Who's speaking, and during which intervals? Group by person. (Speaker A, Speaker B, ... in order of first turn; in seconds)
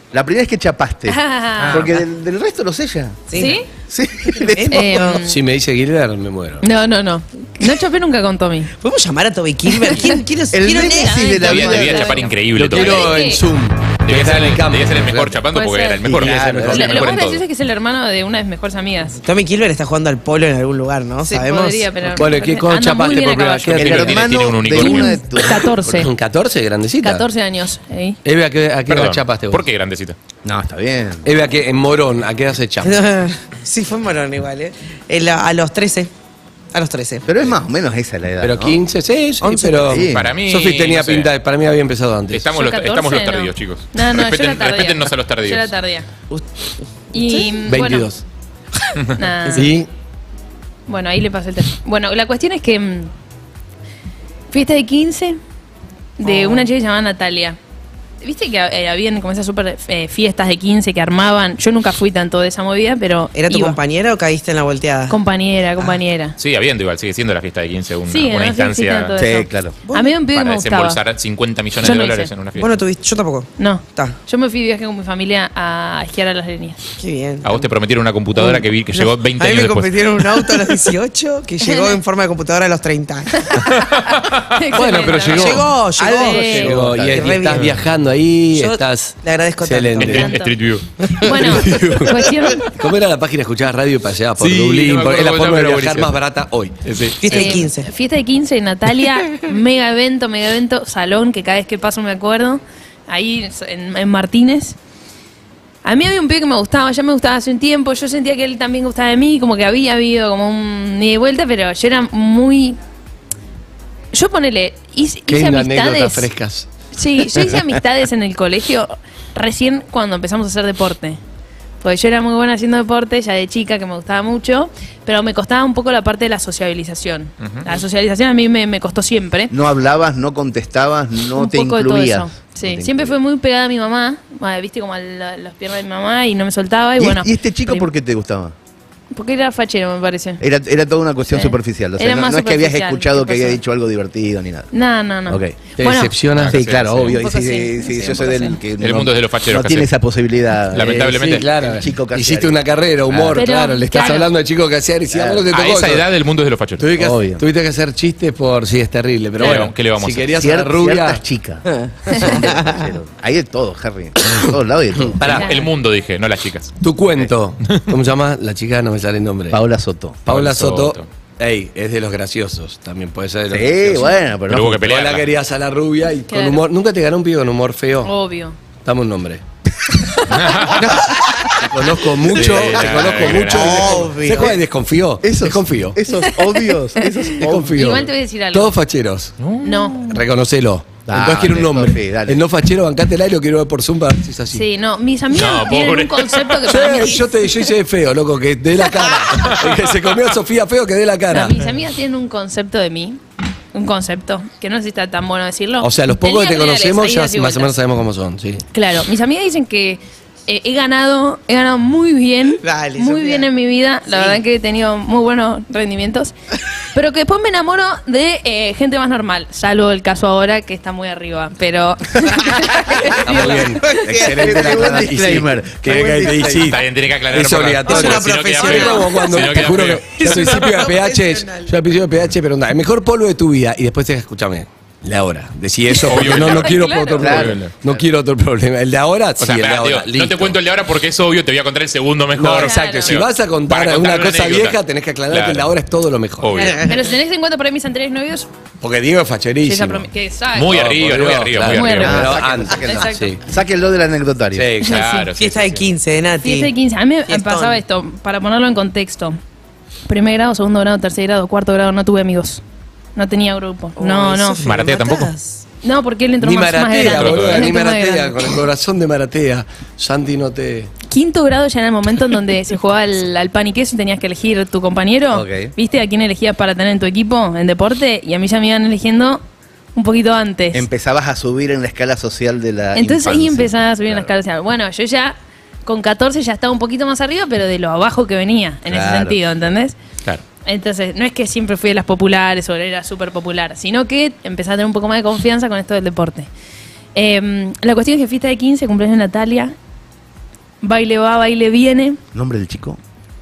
Speaker A: 0.1-3.4, 3.9-5.1, 10.5-12.2, 16.0-17.1, 23.8-26.1, 30.4-31.4, 37.2-38.8, 39.8-40.3, 69.2-69.8, 86.0-87.4, 129.5-133.2, 137.0-138.5, 140.4-144.7, 145.3-145.6, 146.5-153.4, 155.1-155.4, 156.9-157.4, 160.3-165.4, 169.5-170.2, 173.5-174.9, 182.3-184.6, 185.2-188.0, 191.1-192.4, 224.2-226.7, 237.2-237.7, 252.0-254.7, 275.3-275.7, 280.7-284.3, 288.9-289.4, 302.3-303.0
Speaker B: 1.1-1.9, 3.4-3.7, 4.7-5.4, 6.6-8.7, 9.8-10.2, 10.9-13.4, 15.5-16.1, 16.6-19.2, 21.2-24.1, 24.7-26.1, 27.0-28.2, 42.5-46.1, 47.1-48.1, 49.2-49.8, 50.9-53.1, 54.5-55.4, 56.2-57.6, 58.2-63.8, 65.1-66.4, 68.1-71.0, 71.8-72.3, 73.6-76.8, 81.6-82.0, 84.5-86.7, 90.1-90.5, 91.2-92.7, 97.3-104.8, 105.8-112.8, 114.1-116.3, 116.9-121.2, 121.8-129.5, 131.3-137.9, 139.1-140.4, 141.3-143.6, 144.7-146.2, 147.1-148.6, 153.3-154.3, 165.2-165.7, 176.3-176.6, 178.0-178.6, 186.2-188.8, 189.6-190.2, 194.5-197.7, 201.3-203.2, 203.7-207.7, 208.7-216.3, 216.9-224.0, 236.3-237.4, 242.6-243.2, 246.7-248.5, 249.6-250.8, 251.7-253.4, 254.8-255.3, 256.4-259.4, 260.1-262.6, 263.1-264.7, 265.8-268.5, 271.1-279.4, 279.9-280.9, 282.9-289.9, 290.6-296.5, 297.1-299.8, 300.8-302.2
Speaker C: 1.6-1.9, 11.4-13.2, 14.1-17.4, 23.8-25.2, 28.9-30.1, 40.1-41.3, 42.3-45.8, 66.4-69.1, 70.3-72.8, 77.4-80.5, 87.5-87.8, 90.0-90.8, 94.4-96.2, 96.8-97.2, 127.4-127.7, 146.3-147.2, 148.8-149.9, 150.7-151.4, 155.5-156.8, 159.4-160.3, 165.3-166.8, 170.3-171.1, 174.5-175.3, 180.3-181.2, 182.3-184.1, 189.4-189.9, 195.3-196.7, 226.7-230.8, 236.1-237.7, 239.4-245.7, 246.4-246.9, 250.5-252.3, 254.8-255.9, 264.6-265.3, 266.9-267.8
Speaker D: 3.3-3.6, 4.4-5.2, 8.8-11.8, 19.2-21.9, 32.8-36.1, 36.7-37.2, 39.4-40.0, 56.2-56.7, 63.3-65.2, 69.9-70.2, 72.6-74.2, 77.0-77.7, 78.3-83.5, 85.3-87.6, 88.5-90.3, 91.0-91.5, 97.2-97.9, 161.7-162.9, 183.6-184.5, 212.6-213.5, 214.1-214.4, 223.8-224.7, 225.9-226.3, 227.8-229.5, 230.2-231.7, 246.6-247.1, 255.3-256.7, 257.3-257.8, 263.9-265.6
Speaker E: 5.2-6.6, 12.5-15.4, 16.2-16.9, 22.1-24.1, 26.0-27.2, 28.2-29.6, 31.2-33.0, 38.4-42.4, 47.6-48.2, 49.5-49.9, 84.7-85.7, 86.5-90.3, 91.4-97.1, 115.3-116.7, 145.8-146.6, 150.9-156.0, 156.8-161.2, 165.2-165.5, 166.8-169.6, 170.2-174.1, 174.8-178.1, 178.8-179.4, 180.8-186.0, 187.4-189.3, 190.0-194.6, 196.7-201.6, 205.8-208.6, 223.1-240.6, 242.3-246.6, 248.8-250.1, 250.7-253.4, 254.5-254.9, 266.4-270.9